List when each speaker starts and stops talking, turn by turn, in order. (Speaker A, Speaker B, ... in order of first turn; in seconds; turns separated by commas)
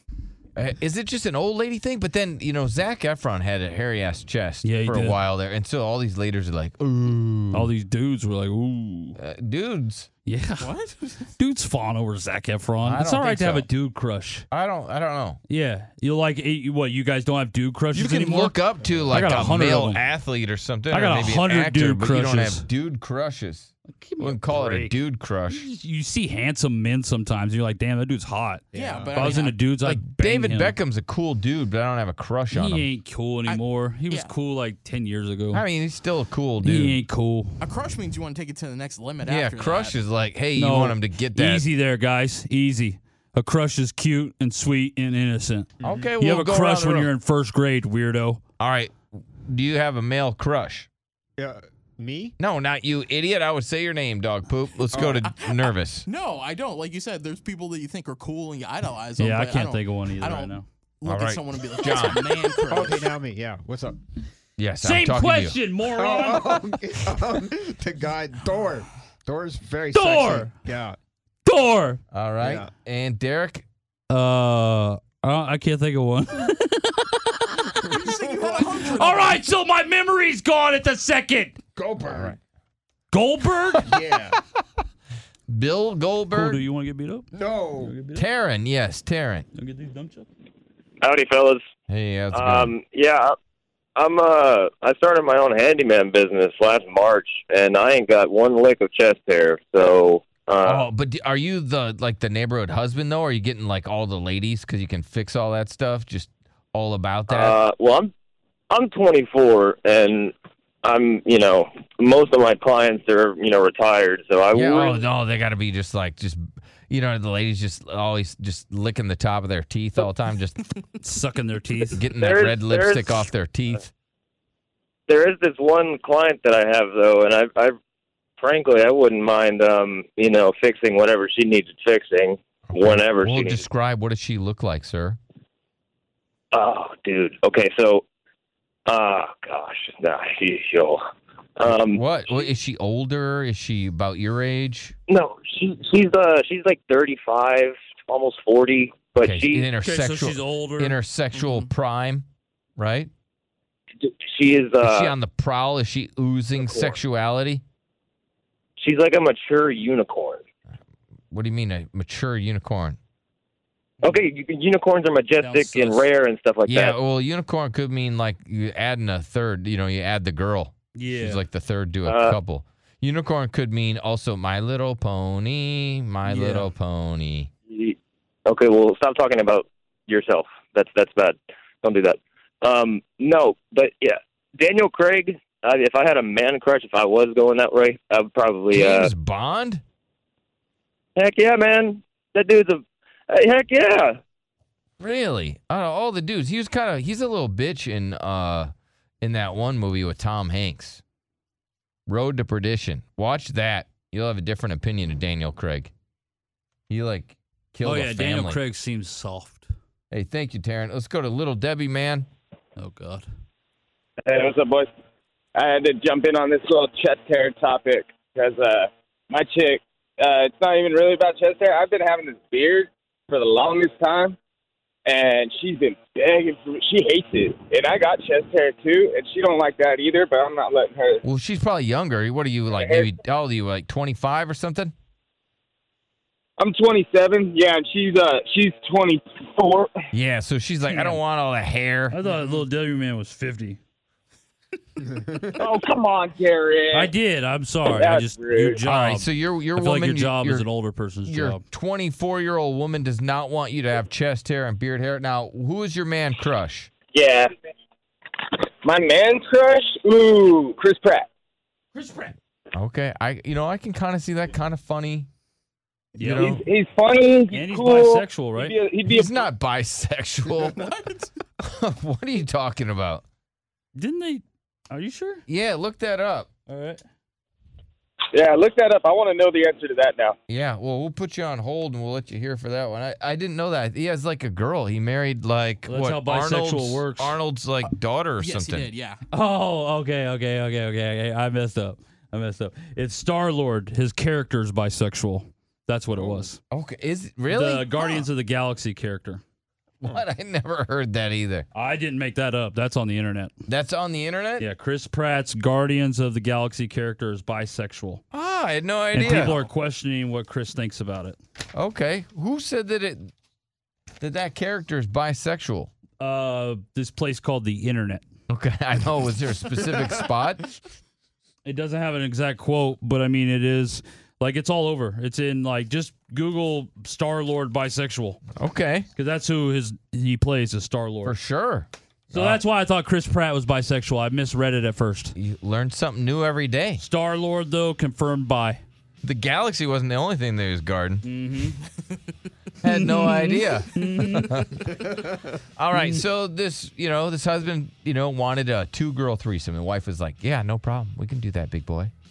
Speaker A: 0.6-7.7, Speaker B: 4.6-5.2, Speaker B: 7.5-9.2, Speaker A: 9.2-10.1, Speaker B: 10.2-10.7, Speaker C: 10.6-11.3, Speaker B: 11.4-14.4, Speaker A: 12.8-13.7, Speaker A: 14.5-15.4, Speaker B: 15.5-20.0, Speaker A: 17.9-25.6, Speaker D: 18.8-19.2, Speaker B: 20.9-22.6, Speaker B: 23.9-25.0, Speaker B: 25.5-30.8, Speaker D: 28.7-29.3, Speaker C: 28.7-29.6, Speaker A: 29.8-32.9, Speaker B: 32.5-35.6, Speaker C: 33.5-34.4, Speaker A: 35.5-37.0, Speaker B: 36.6-37.6, Speaker C: 37.6-40.0, Speaker A: 39.2-41.6, Speaker B: 40.5-48.4, Speaker D: 45.8-46.1, Speaker A: 45.8-47.1, Speaker A: 48.6-50.9, Speaker D: 51.4-52.4, Speaker A: 52.4-56.1, Speaker D: 54.9-55.2, Speaker C: 55.0-63.1, Speaker B: 59.2-60.6, Speaker A: 61.0-62.3, Speaker D: 62.7-64.0, Speaker A: 64.6-65.6, Speaker B: 64.8-66.6, Speaker D: 65.9-71.0, Speaker B: 69.9-70.5, Speaker B: 71.4-72.0, Speaker A: 72.1-73.7, Speaker D: 72.4-72.7, Speaker B: 74.1-77.8, Speaker C: 77.8-79.4, Speaker D: 78.1-78.5, Speaker B: 78.9-81.6, Speaker D: 81.8-82.4, Speaker A: 82.1-82.3, Speaker B: 83.1-83.9, Speaker D: 83.8-84.4, Speaker A: 85.5-86.6, Speaker B: 86.3-87.3, Speaker D: 87.3-88.0, Speaker B: 87.8-88.2, Speaker A: 88.1-89.5, Speaker B: 89.5-90.3, Speaker E: 91.0-91.6, Speaker A: 91.9-92.7, Speaker E: 92.3-93.3, Speaker E: 94.0-100.8, Speaker A: 100.7-107.6, Speaker E: 107.3-108.1, Speaker E: 108.7-110.3, Speaker E: 110.8-115.1, Speaker A: 114.5-120.6, Speaker B: 121.0-122.0, Speaker A: 121.9-123.9, Speaker E: 122.2-123.2, Speaker E: 125.1-127.7, Speaker E: 128.4-133.6, Speaker A: 132.7-135.2, Speaker E: 136.5-138.0, Speaker E: 138.9-141.0, Speaker E: 141.6-142.0, Speaker A: 141.7-144.9, Speaker E: 145.1-149.7, Speaker A: 149.2-152.2, Speaker B: 149.8-151.0, Speaker C: 151.3-151.7, Speaker A: 152.8-153.1, Speaker E: 154.0-155.1, Speaker A: 154.8-157.6, Speaker E: 156.6-157.0, Speaker E: 158.8-160.4, Speaker A: 161.3-163.0, Speaker E: 164.0-166.9, Speaker B: 165.4-166.1, Speaker A: 166.7-177.5, Speaker B: 170.9-171.4, Speaker E: 172.1-172.4, Speaker B: 176.2-176.7, Speaker E: 177.7-189.1, Speaker A: 188.7-189.8, Speaker E: 191.2-194.2, Speaker A: 195.0-198.7, Speaker A: 199.2-201.0, Speaker A: 202.1-205.9, Speaker A: 206.9-208.6, Speaker B: 207.8-209.7, Speaker A: 210.1-212.3, Speaker B: 212.8-213.2, Speaker F: 214.2-214.9, Speaker F: 215.5-224.3, Speaker F: 225.1-231.2, Speaker A: 231.2-234.9, Speaker F: 232.7-233.1, Speaker F: 236.6-239.9, Speaker A: 240.1-242.2, Speaker B: 240.9-241.2, Speaker B: 242.1-243.8, Speaker F: 245.5-247.1, Speaker B: 246.9-251.6, Speaker F: 247.8-248.8, Speaker A: 248.8-250.7, Speaker A: 251.2-256.9, Speaker F: 257.1-257.5, Speaker F: 258.8-261.3, Speaker B: 261.9-262.3, Speaker A: 262.7-265.3, Speaker B: 266.1-266.6, Speaker A: 266.2-266.6, Speaker F: 266.4-269.4, Speaker B: 267.5-268.8, Speaker A: 269.0-270.8, Speaker C: 270.6-271.3, Speaker A: 271.6-273.2, Speaker B: 273.9-275.4, Speaker A: 275.5-276.5, Speaker B: 276.7-277.0, Speaker F: 278.3-280.4, Speaker A: 280.5-288.9, Speaker B: 285.8-287.4, Speaker C: 288.4-289.2, Speaker B: 289.3-296.6, Speaker A: 296.3-298.2, Speaker B: 297.5-299.4, Speaker A: 300.0-301.6, Speaker B: 301.7-303.5, Speaker A: 303.7-304.6, Speaker B: 304.6-308.2, Speaker A: 308.3-309.6, Speaker B: 309.1-311.4, Speaker A: 311.7-313.3, Speaker A: 314.2-315.9, Speaker B: 316.2-318.2, Speaker A: 318.5-320.8, Speaker B: 321.6-328.4, Speaker A: 328.6-329.1, Speaker B: 329.1-331.4, Speaker A: 331.2-332.6, Speaker B: 332.3-335.3, Speaker A: 335.4-337.0, Speaker B: 337.0-338.8, Speaker A: 339.2-341.2, Speaker B: 341.2-341.8, Speaker A: 342.8-352.1, Speaker B: 342.9-344.7, Speaker B: 346.0-346.2